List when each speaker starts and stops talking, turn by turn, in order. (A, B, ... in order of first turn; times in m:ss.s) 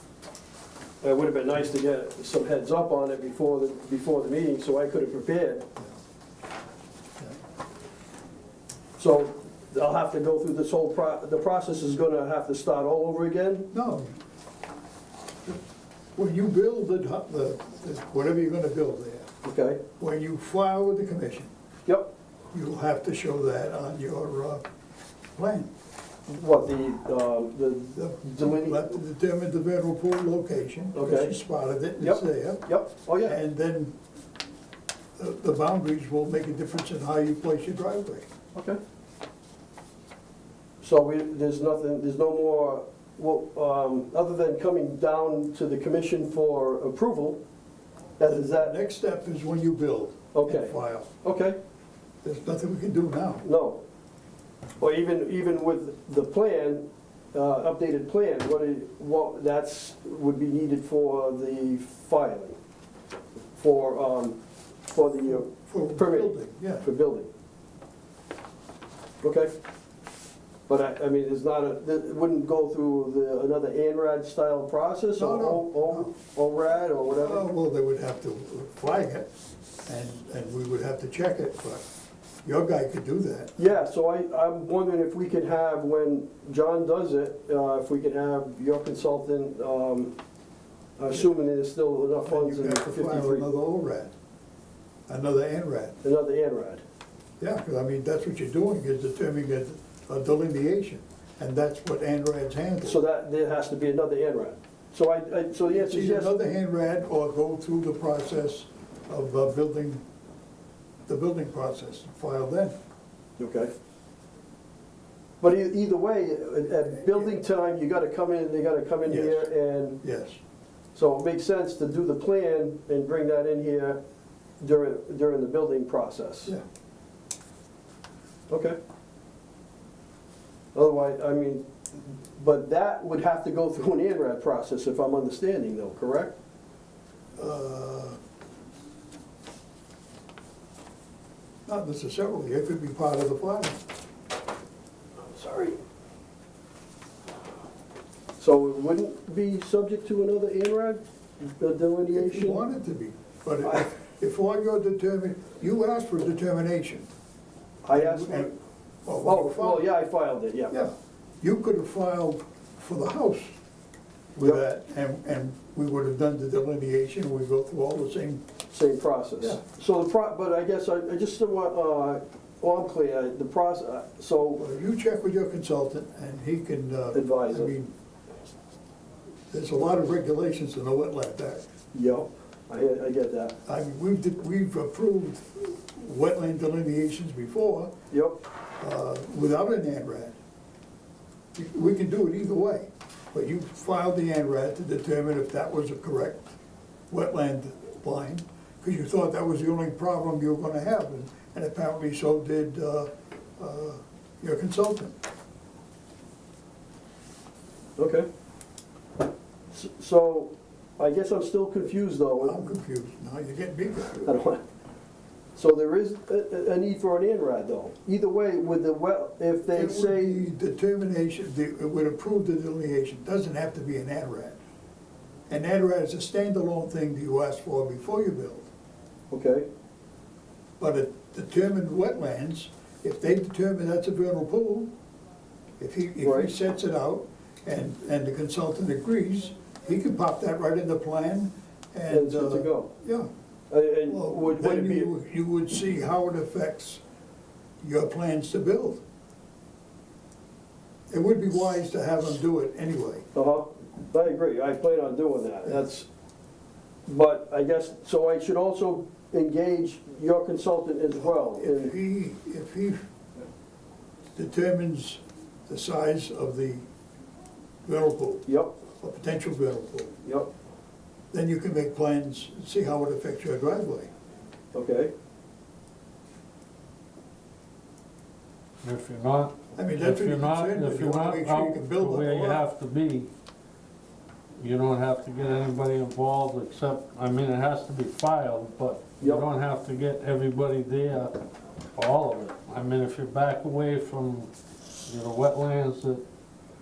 0:01.0-0:05.7 A
0:09.0-0:13.7 A
0:13.7-0:14.1 B
0:16.2-0:19.3 B
0:19.4-0:19.8 A
0:20.0-0:21.5 B
0:22.5-0:24.6 B
0:25.4-0:25.7 B
0:26.3-0:28.9 A
0:28.0-0:32.7 B
0:31.0-0:31.4 A
0:32.0-0:33.4 A
0:33.2-0:34.0 B
0:35.2-0:38.3 B
0:40.8-0:47.4 A
0:48.2-0:48.7 A
0:48.3-0:51.1 B
0:50.3-0:51.6 A
0:52.2-0:53.5 B
0:53.4-0:53.8 A
0:54.8-1:02.6 A
1:03.6-1:04.4 A
1:04.9-1:07.3 A
1:05.3-1:06.9 B
1:09.2-1:09.5 A
1:10.7-1:17.5 A
1:15.2-1:16.1 B
1:17.2-1:19.3 B
1:19.9-1:21.8 B
1:22.4-1:23.6 B
1:23.6-1:30.1 A
1:31.0-1:33.5 A
1:32.2-1:34.1 B
1:35.1-1:36.0 B
1:36.0-1:36.8 A
1:37.4-1:43.0 B
1:42.8-1:46.4 A
1:45.7-1:50.0 B
1:51.1-1:52.8 B
1:53.4-1:53.7 A
1:55.4-2:00.0 A
1:57.0-1:57.3 B
1:59.1-1:59.5 B
2:00.0-2:00.4 B
2:01.0-2:04.0 A
2:04.6-2:06.5 A
2:08.5-2:08.8 A
2:10.8-2:16.3 A
2:17.4-2:18.2 B
2:21.7-2:23.8 B
2:25.3-2:25.8 A
2:28.4-2:32.6 A
2:32.1-2:37.1 B
2:37.8-2:38.5 A
2:37.9-2:38.5 B
2:39.1-2:39.9 B
2:39.2-2:40.7 A
2:40.7-2:43.6 B
2:44.4-2:48.5 B
2:48.7-2:54.6 A
2:54.6-2:57.9 B
2:57.1-2:57.7 A
2:59.5-3:01.6 B
3:01.9-3:03.6 A
3:03.6-3:07.9 B
3:08.1-3:08.4 A
3:08.8-3:10.4 B
3:11.6-3:16.6 B
3:17.1-3:25.2 B
3:28.0-3:28.3 A
3:29.7-3:32.7 A
3:32.4-3:34.4 B
3:34.2-3:34.6 A
3:35.6-3:40.4 A
3:39.7-3:44.6 B
3:45.5-3:48.7 B
3:49.3-3:49.7 A
3:50.8-3:54.9 B
3:55.8-4:03.3 B
3:56.2-3:56.5 A
4:02.1-4:02.9 A
4:03.7-4:05.1 A
4:04.1-4:07.0 B
4:07.8-4:09.0 B
4:11.1-4:13.2 B
4:13.4-4:16.1 A
4:17.1-4:21.9 A
4:21.1-4:23.1 B
4:24.4-4:26.9 B
4:27.9-4:28.4 B
4:28.5-4:28.8 A
4:29.0-4:30.2 B
4:31.3-4:34.1 B
4:34.7-4:35.1 A
4:38.8-4:43.3 C
4:39.8-4:42.7 B
4:44.6-4:51.4 C
4:52.0-4:54.5 C
4:55.1-4:56.2 C